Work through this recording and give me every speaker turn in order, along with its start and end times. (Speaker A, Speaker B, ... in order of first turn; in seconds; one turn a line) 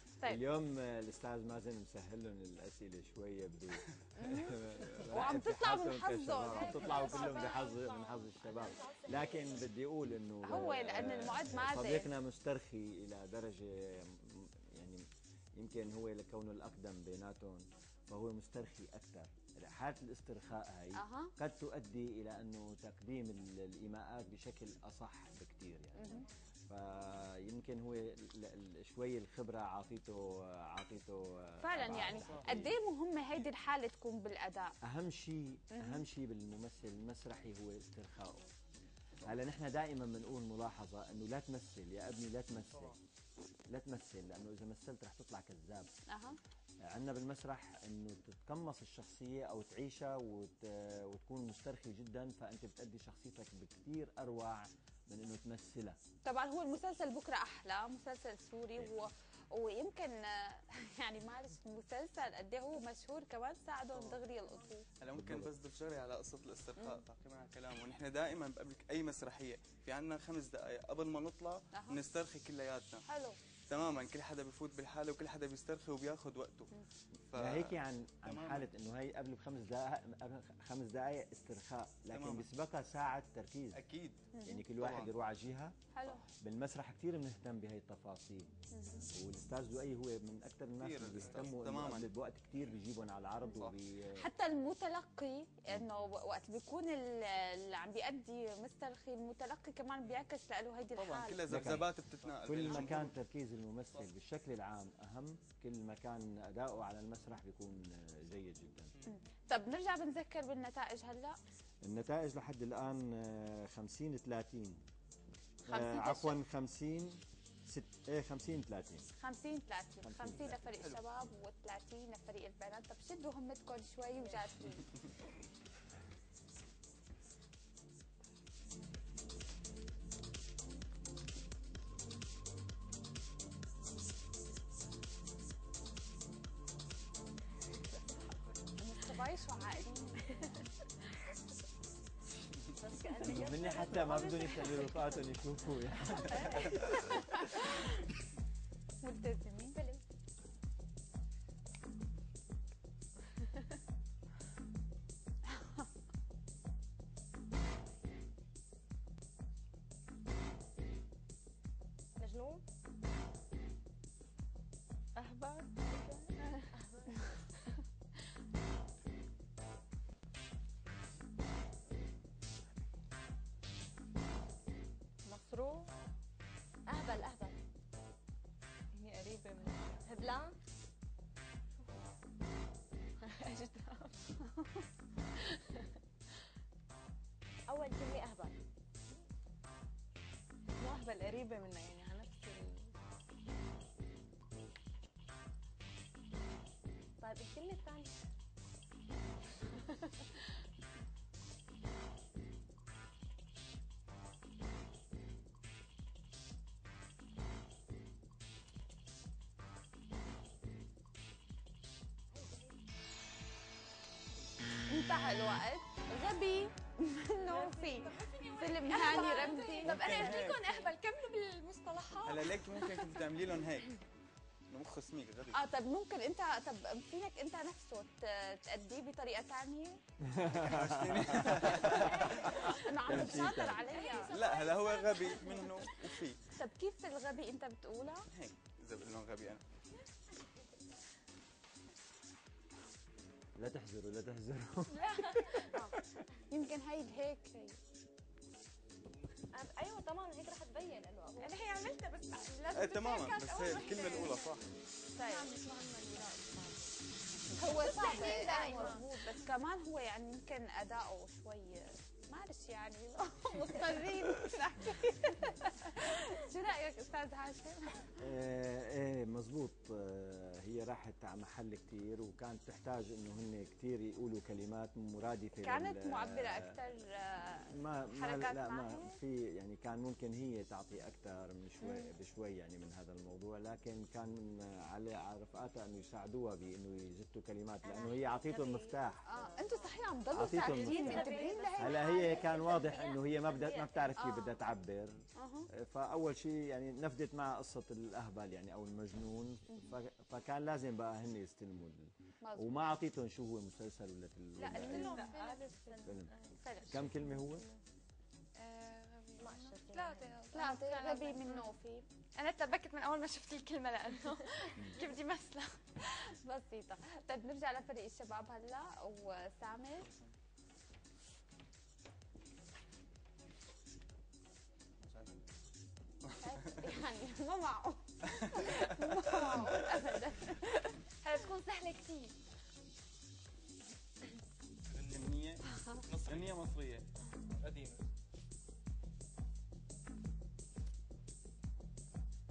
Speaker A: 0.2-26.1
Speaker B: 4.2-7.4
Speaker C: 6.8-8.0
Speaker D: 8.4-9.7
Speaker B: 10.4-12.1
Speaker B: 20.9-21.3
Speaker B: 25.9-26.3
Speaker D: 26.0-26.3
Speaker A: 26.7-32.7
Speaker B: 31.6-34.8
Speaker E: 31.9-32.5
Speaker A: 34.8-38.5
Speaker B: 35.8-36.0
Speaker A: 39.2-43.0
Speaker A: 43.7-45.9
Speaker B: 46.1-46.4
Speaker A: 46.9-56.0
Speaker B: 56.2-64.8
Speaker E: 65.0-73.0
Speaker A: 65.2-65.5
Speaker B: 71.7-72.0
Speaker B: 73.0-73.4
Speaker E: 73.7-76.7
Speaker E: 77.3-78.7
Speaker A: 77.3-83.8
Speaker E: 82.1-82.5
Speaker E: 83.7-85.1
Speaker B: 84.3-84.7
Speaker A: 84.5-85.8
Speaker B: 85.9-86.2
Speaker A: 86.4-88.5
Speaker B: 88.7-89.1
Speaker A: 89.1-94.2
Speaker E: 90.8-92.1
Speaker B: 94.2-101.4
Speaker E: 101.0-103.2
Speaker A: 101.5-101.9
Speaker F: 102.3-102.8
Speaker A: 102.5-109.0
Speaker B: 109.1-111.4
Speaker A: 111.8-114.8
Speaker B: 115.7-116.4
Speaker A: 115.7-119.1
Speaker B: 119.2-124.9
Speaker A: 120.0-120.6
Speaker E: 120.6-121.0
Speaker D: 124.1-124.6
Speaker B: 138.8-140.6
Speaker D: 142.8-145.2
Speaker A: 143.2-147.1
Speaker B: 149.0-149.8
Speaker D: 149.7-150.0
Speaker D: 162.2-162.6
Speaker C: 165.2-166.7
Speaker D: 166.7-167.4
Speaker C: 175.2-175.9
Speaker D: 176.9-177.6
Speaker C: 179.0-180.1
Speaker D: 180.0-180.6
Speaker C: 183.2-184.8
Speaker D: 187.7-188.6
Speaker C: 190.8-192.9
Speaker D: 197.2-198.2
Speaker D: 212.3-212.8
Speaker B: 214.9-220.5
Speaker D: 217.4-218.3
Speaker G: 218.0-223.1
Speaker E: 219.8-220.9
Speaker E: 222.2-224.0
Speaker E: 224.7-225.6
Speaker B: 225.5-230.0
Speaker A: 230.2-233.9
Speaker E: 230.5-232.8
Speaker B: 232.6-234.4
Speaker D: 233.3-235.5
Speaker E: 234.3-236.4
Speaker B: 236.6-238.3
Speaker E: 238.3-239.7
Speaker A: 243.6-245.1
Speaker G: 244.9-245.7
Speaker B: 245.5-245.9
Speaker B: 246.5-247.8
Speaker D: 249.5-251.7
Speaker G: 251.4-254.5
Speaker E: 252.7-254.7
Speaker C: 254.0-254.3
Speaker B: 255.2-255.5
Speaker G: 255.2-256.6
Speaker C: 255.3-256.8
Speaker B: 257.5-268.1
Speaker C: 257.6-259.0
Speaker G: 257.6-259.1
Speaker A: 268.2-276.7
Speaker B: 275.6-279.2
Speaker A: 277.7-289.2
Speaker B: 281.8-282.1
Speaker D: 287.8-290.0
Speaker B: 289.3-292.5
Speaker A: 290.3-305.2
Speaker D: 290.6-294.2
Speaker C: 291.1-291.6
Speaker B: 294.2-294.6
Speaker B: 295.4-295.7
Speaker B: 299.7-300.0
Speaker B: 302.4-302.7
Speaker B: 304.6-305.7
Speaker C: 304.8-307.6
Speaker G: 305.1-305.6
Speaker A: 306.1-306.3
Speaker B: 306.6-307.0
Speaker A: 306.9-307.6
Speaker G: 308.6-311.7
Speaker D: 309.4-310.4
Speaker B: 310.5-312.1
Speaker G: 312.4-315.8
Speaker B: 316.1-320.1
Speaker E: 320.0-320.3
Speaker E: 325.0-325.4
Speaker E: 326.2-326.9
Speaker B: 326.4-330.6
Speaker E: 328.4-329.7
Speaker G: 330.6-332.4
Speaker F: 334.9-335.4
Speaker E: 335.1-337.1
Speaker F: 336.0-336.7
Speaker F: 337.6-338.1